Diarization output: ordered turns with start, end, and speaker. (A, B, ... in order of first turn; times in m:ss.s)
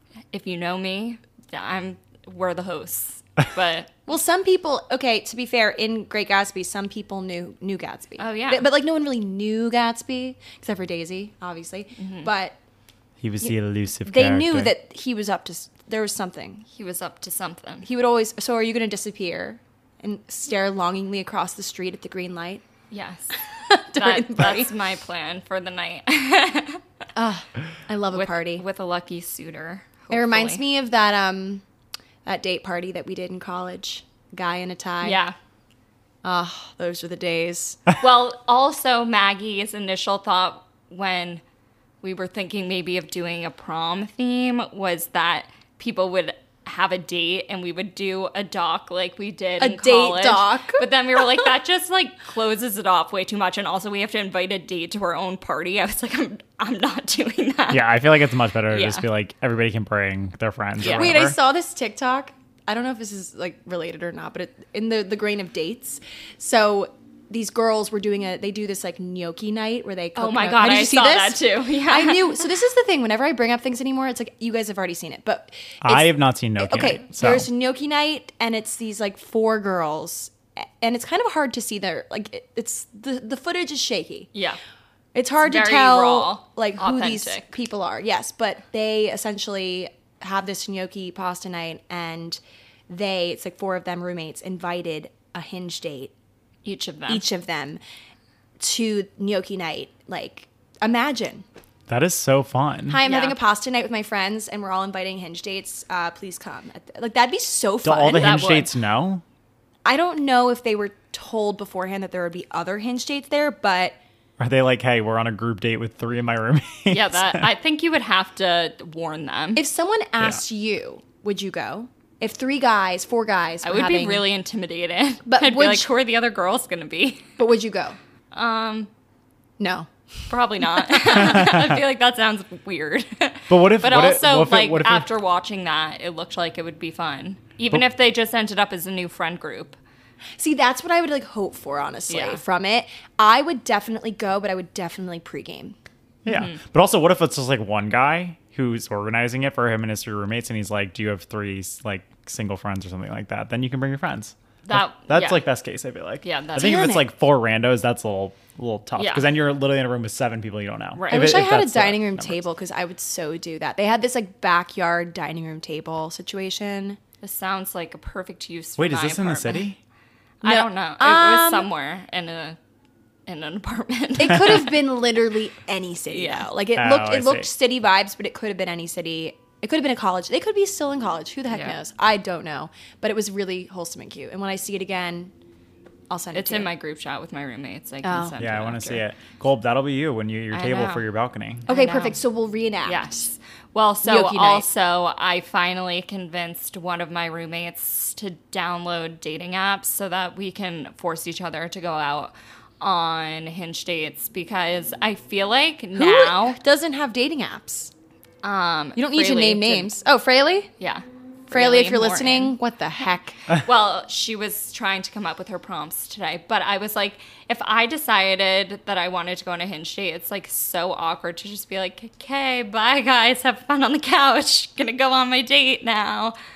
0:00.3-0:04.0 A
0:04.1-0:12.6 B
0:08.2-0:08.7 A
0:12.0-0:12.3 A
0:13.2-0:14.8 C
0:14.0-0:16.6 B
0:16.7-0:17.9 A
0:17.8-0:22.6 B
0:22.9-0:23.4 A
0:23.5-0:24.8 B
0:23.9-0:26.8 A
0:27.2-0:28.6 B
0:28.1-0:30.6 A
0:30.1-0:31.6 B
0:32.2-0:35.2 B
0:35.0-0:35.4 A
0:36.2-0:37.8 B
0:38.0-0:41.4 A
0:42.0-0:59.1 A
0:49.6-0:50.9 B
0:57.7-1:01.4 C
1:00.8-1:01.2 A
1:00.8-1:24.3 B
1:10.2-1:12.5 A
1:15.8-1:17.5 C
1:24.3-1:24.6 A
1:25.1-1:36.1 B
1:25.4-1:27.5 A
1:36.6-1:37.3 A
1:37.1-1:37.8 B
1:38.6-1:41.4 B
1:41.9-1:43.0 C
1:42.9-1:48.6 B
1:43.0-1:43.4 A
1:47.8-1:49.2 C
1:48.1-1:48.7 A
1:49.8-1:54.0 B
1:54.4-1:57.5 C
1:56.9-1:59.6 A
1:59.6-2:04.3 B
2:03.6-2:07.4 A
2:05.3-2:05.9 B
2:07.4-2:08.0 B
2:08.3-2:08.9 A
2:09.6-2:09.9 B
2:10.3-2:19.8 A
2:10.8-2:11.0 B
2:11.2-2:11.8 C
2:13.5-2:15.1 C
2:20.4-2:25.8 B
2:22.1-2:22.4 A
2:26.2-2:42.4 C
2:26.3-2:26.6 A
2:34.7-2:35.5 A
2:36.2-2:37.0 A
2:36.6-2:37.1 B
2:39.0-2:39.3 A
2:41.0-2:41.5 A
2:41.1-2:47.0 B
2:47.2-2:49.7 A
2:48.8-2:49.8 C
2:50.4-2:52.6 A
2:50.4-2:51.7 B
2:53.3-2:54.8 A
2:54.2-3:05.3 B
2:56.1-2:56.6 A
2:56.8-2:57.5 C
3:01.5-3:01.8 A
3:06.1-3:06.7 B
3:06.3-3:09.0 A
3:08.0-3:08.4 B
3:08.4-3:11.7 C
3:10.5-3:11.1 A
3:11.7-3:12.2 A
3:11.7-3:13.3 B
3:12.8-3:26.6 A
3:14.0-3:14.7 B
3:26.0-3:27.9 B
3:28.4-3:29.9 A
3:29.0-3:30.7 B
3:30.8-3:32.6 A
3:31.5-3:33.4 B
3:33.5-3:46.4 A